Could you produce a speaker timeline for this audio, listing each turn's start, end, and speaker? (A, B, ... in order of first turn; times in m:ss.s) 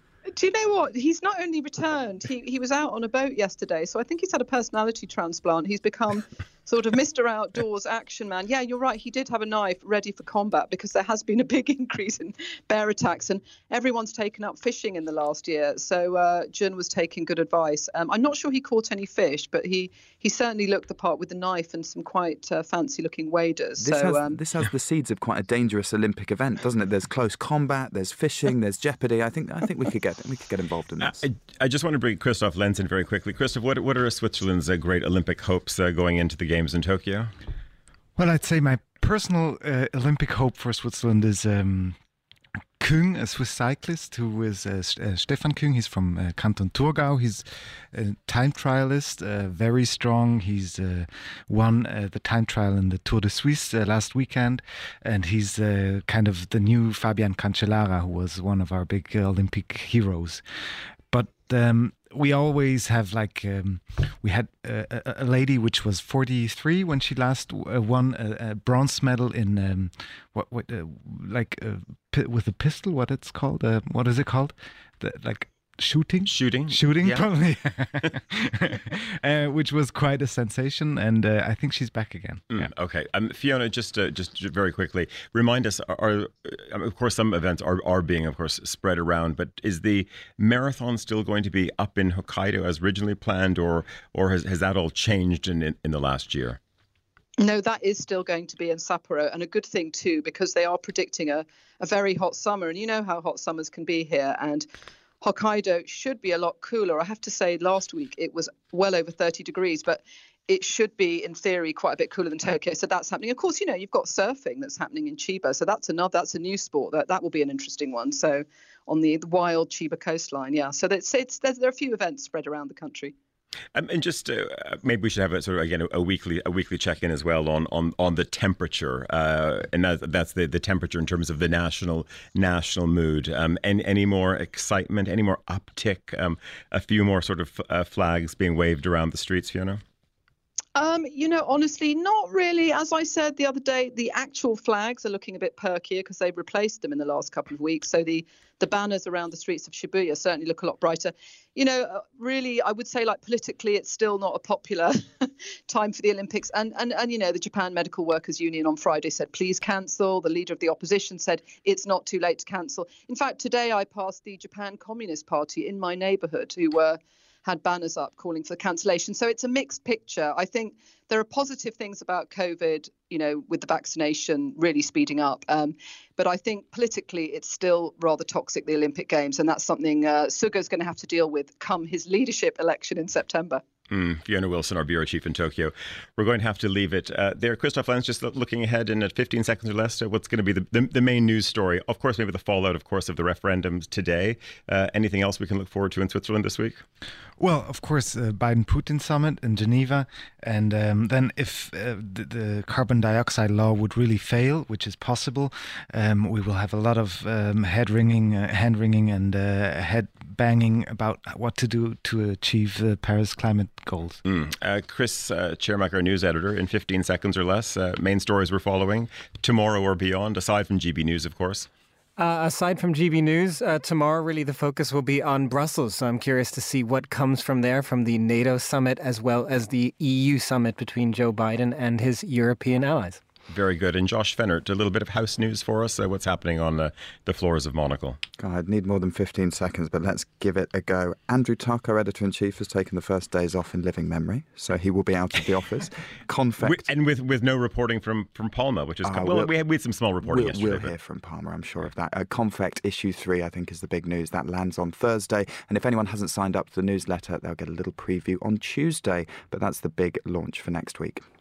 0:00.3-0:24.4 A
0:23.8-0:31.2 B
0:31.0-0:37.3 C
0:38.2-0:42.0 D
0:42.8-1:00.4 D
1:01.1-1:22.7 D
1:16.3-1:17.2 C
1:22.5-1:36.6 C
1:37.4-1:44.7 A
1:45.2-2:03.2 A
2:03.8-2:19.8 C
2:20.8-3:03.6 A
3:03.9-3:16.8 C
3:17.4-3:34.2 D
3:34.2-3:41.7 C
3:42.2-3:53.2 E
3:53.5-3:58.2 C
3:58.4-4:06.9 B
4:06.6-4:10.9 C
4:09.0-4:09.5 B
4:10.2-4:21.2 B